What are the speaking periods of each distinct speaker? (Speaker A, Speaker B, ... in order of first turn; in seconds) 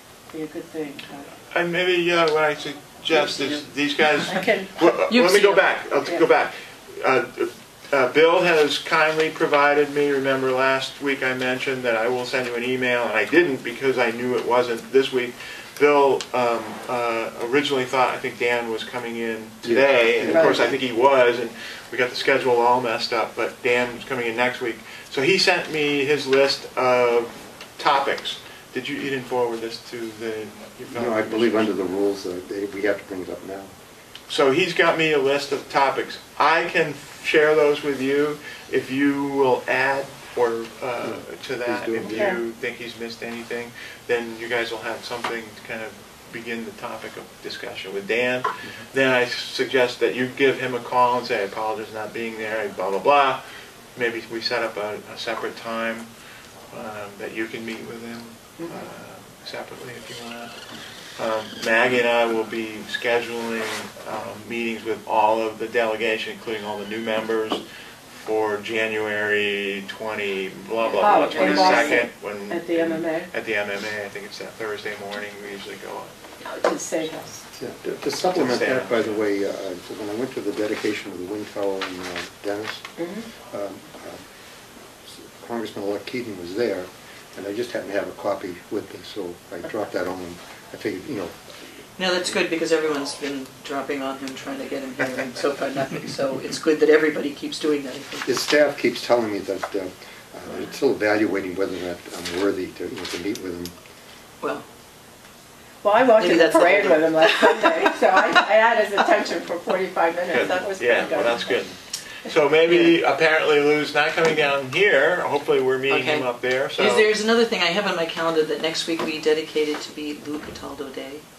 Speaker A: 0.3-1.3, 3.1-3.6, 4.2-5.0, 20.2-20.6, 42.0-42.4, 70.9-73.3, 76.4-77.4, 83.0-83.3, 105.8-111.6
Speaker B: 1.5-31.8, 34.3-53.4, 53.9-56.1, 56.7-60.5, 61.2-67.6, 68.1-76.1, 78.3-79.2, 110.3-117.1
Speaker C: 5.0-5.7, 70.9-72.0, 92.0-98.3, 104.4-104.7, 106.1-107.9, 112.7-112.9, 115.9-121.2
Speaker D: 19.6-20.8, 30.9-33.7, 41.0-42.3, 77.5-84.2, 85.1-91.3, 98.2-103.7